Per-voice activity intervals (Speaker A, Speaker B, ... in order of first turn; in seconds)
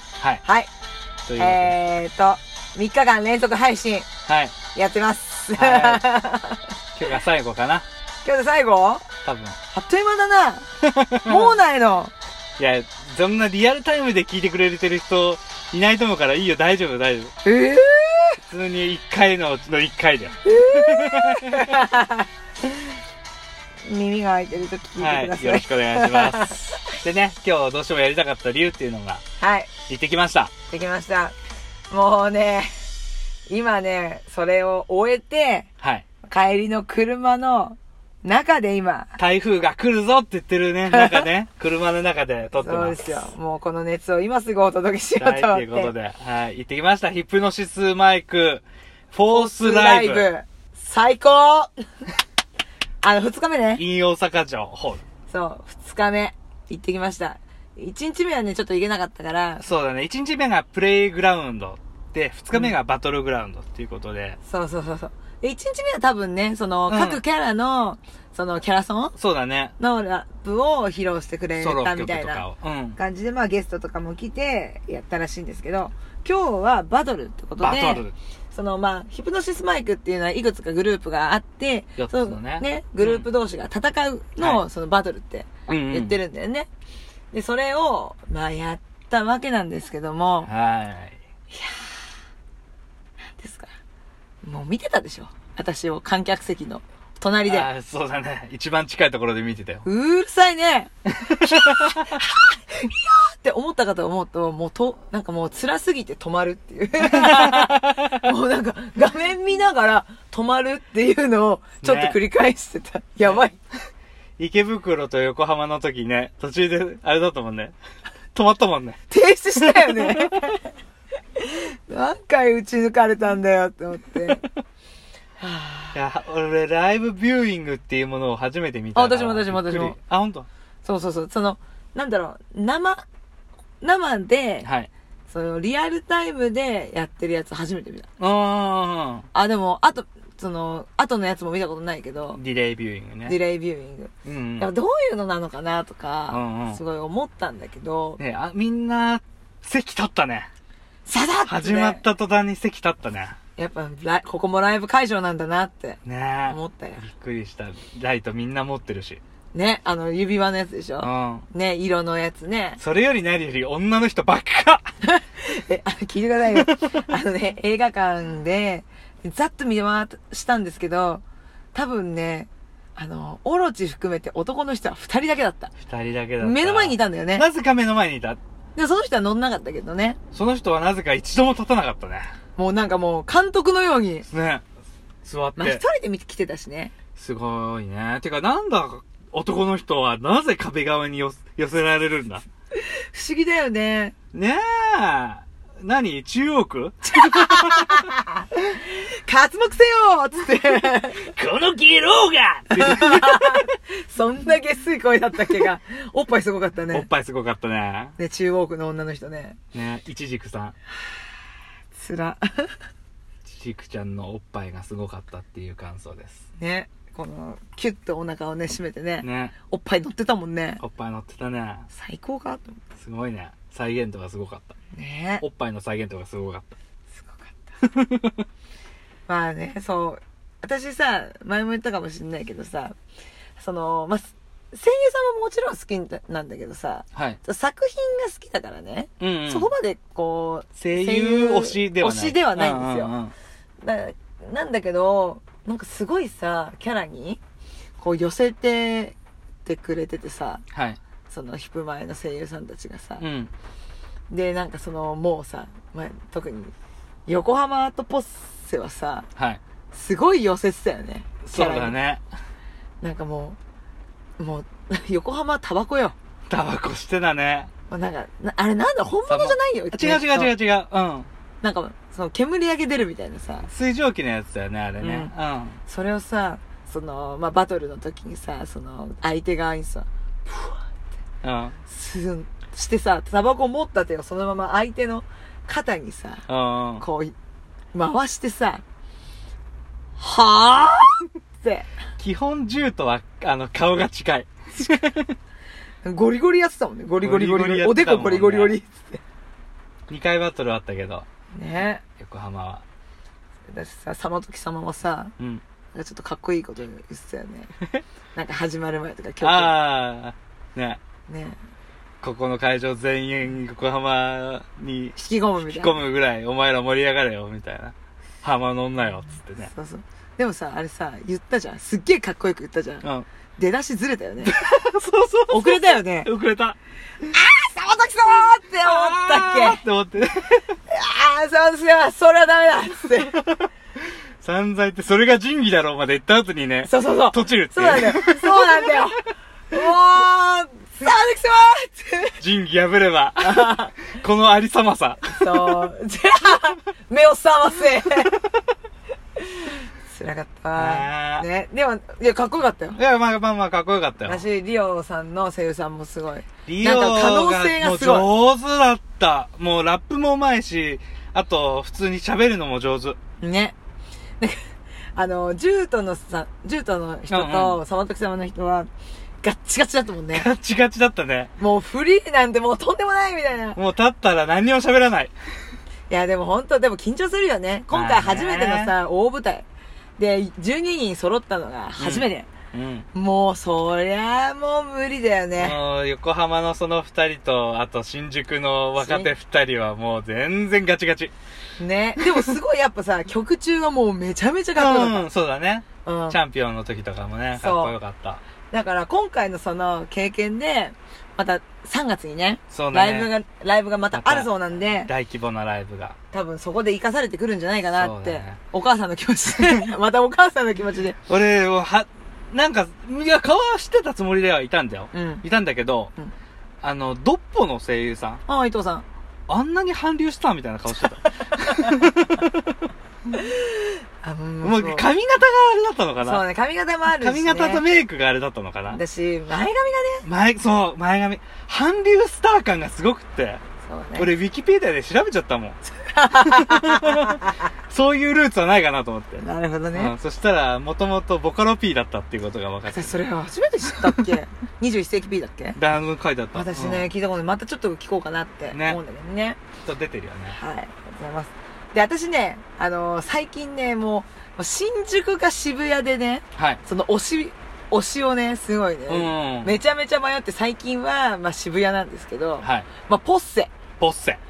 Speaker A: 0.4-0.7, 1.4-4.1, 4.7-6.7, 8.2-9.1, 9.7-10.7, 11.2-12.1, 17.4-18.4, 20.4-22.3, 23.9-27.0, 29.4-29.7, 30.7-31.4, 31.9-32.7, 33.5-35.7, 36.3-39.2, 40.9-41.3, 42.5-45.9, 49.3-51.7, 53.0-53.8, 55.3-59.6, 64.4-69.2, 69.8-86.7, 87.3-90.5, 91.5-92.0, 93.3-93.7, 94.4-97.7, 99.8-100.9, 101.5-113.6, 119.1-120.7, 121.4-124.5, 125.4-126.0, 128.9-130.0, 130.8-133.0, 133.8-134.7, 135.3-138.1, 139.3-142.4, 143.3-148.2, 151.1-152.0, 153.6-157.0, 159.5-162.8, 165.0-171.2, 171.7-175.7, 176.4-177.5, 178.8-180.2, 182.6-184.3, 185.6-186.9, 192.8-194.2, 197.1-201.3, 202.7-207.1, 208.2-209.6, 211.9-212.8, 216.6-220.8, 221.9-222.8, 224.9-225.4, 227.2-227.6, 229.3-232.9, 233.6-243.1, 243.8-247.4, 248.0-250.6, 251.3-253.3, 254.3-256.7, 257.3-259.3, 259.9-262.0, 263.0-263.6, 264.4-266.1, 267.9-270.5, 271.6-273.7, 275.0-275.3, 275.9-280.8, 281.9-286.4, 287.0-287.4, 287.9-288.8, 290.2-291.9, 296.0-299.2, 301.5-302.0, 303.7-305.3, 305.9-307.8, 308.4-309.8, 311.3-311.6, 315.2-316.0, 319.6-323.1, 323.6-324.6, 325.5-326.3, 327.2-329.8, 330.9-333.4, 336.8-342.4, 343.4-343.9, 345.4-348.4, 350.1-353.0, 354.3-358.3, 363.4-363.8, 365.1-368.9, 369.4-370.5, 371.6-373.8, 376.1-379.7, 380.2-382.5, 383.1-385.8, 389.0-389.3, 391.8-395.3, 396.1-396.4, 397.6-398.0, 398.7-405.1, 406.3-411.2, 415.1-415.4, 418.5-419.1, 421.4-422.0, 423.4-425.1, 426.2-427.8, 428.9-430.3, 433.8-434.3, 435.9-437.6, 439.4-440.1, 442.9-445.8, 446.6-449.6, 450.5-463.7
Speaker B: 1.3-1.8, 4.3-4.5, 5.5-6.1, 7.0-7.9, 9.2-9.6, 10.8-11.6, 12.6-17.3, 18.4-21.8, 25.0-29.2, 29.9-30.5, 39.2-43.0, 45.2-50.3, 53.8-55.0, 59.6-64.4, 66.9-67.2, 69.2-69.8, 71.6-73.0, 77.6-78.1, 82.0-83.3, 84.4-84.7, 85.7-86.2, 90.5-91.2, 97.5-99.8, 101.2-102.2, 107.0-108.2, 111.8-112.2, 114.4-117.8, 118.3-119.0, 119.6-120.4, 125.9-130.5, 134.6-134.9, 138.2-139.3, 142.4-143.4, 144.2-144.7, 146.3-146.8, 148.2-150.5, 151.5-153.4, 156.1-159.2, 161.0-161.5, 162.8-164.9, 166.6-166.8, 175.8-178.4, 180.3-182.3, 184.3-184.6, 185.2-185.8, 187.2-192.4, 194.3-198.1, 201.2-203.7, 206.9-208.2, 209.7-210.7, 213.5-216.4, 219.2-219.6, 220.8-221.9, 223.0-224.8, 225.4-226.8, 227.8-228.4, 239.2-239.7, 240.8-243.3, 250.7-251.0, 253.2-253.5, 261.4-262.2, 266.5-267.7, 269.3-271.3, 273.7-275.8, 281.4-281.8, 286.5-287.1, 292.2-295.4, 297.2-298.8, 300.1-301.2, 302.2-302.8, 309.4-311.0, 312.2-319.7, 324.4-326.8, 328.8-330.7, 333.3-333.7, 334.4-339.0, 342.4-345.9, 350.8-351.5, 353.0-354.4, 356.7-363.2, 367.3-367.8, 370.3-371.5, 373.8-375.3, 377.9-378.9, 382.0-383.1, 385.6-391.3, 394.8-398.4, 402.7-403.3, 404.1-406.2, 407.9-408.6, 411.3-416.1, 416.8-418.4, 419.5-422.8, 424.6-426.4, 427.2-429.0, 430.2-433.6, 434.2-435.8, 436.4-443.2, 445.8-447.1, 448.7-449.0, 449.8-450.6, 456.6-456.8, 459.1-459.8, 462.6-462.9, 464.0-464.4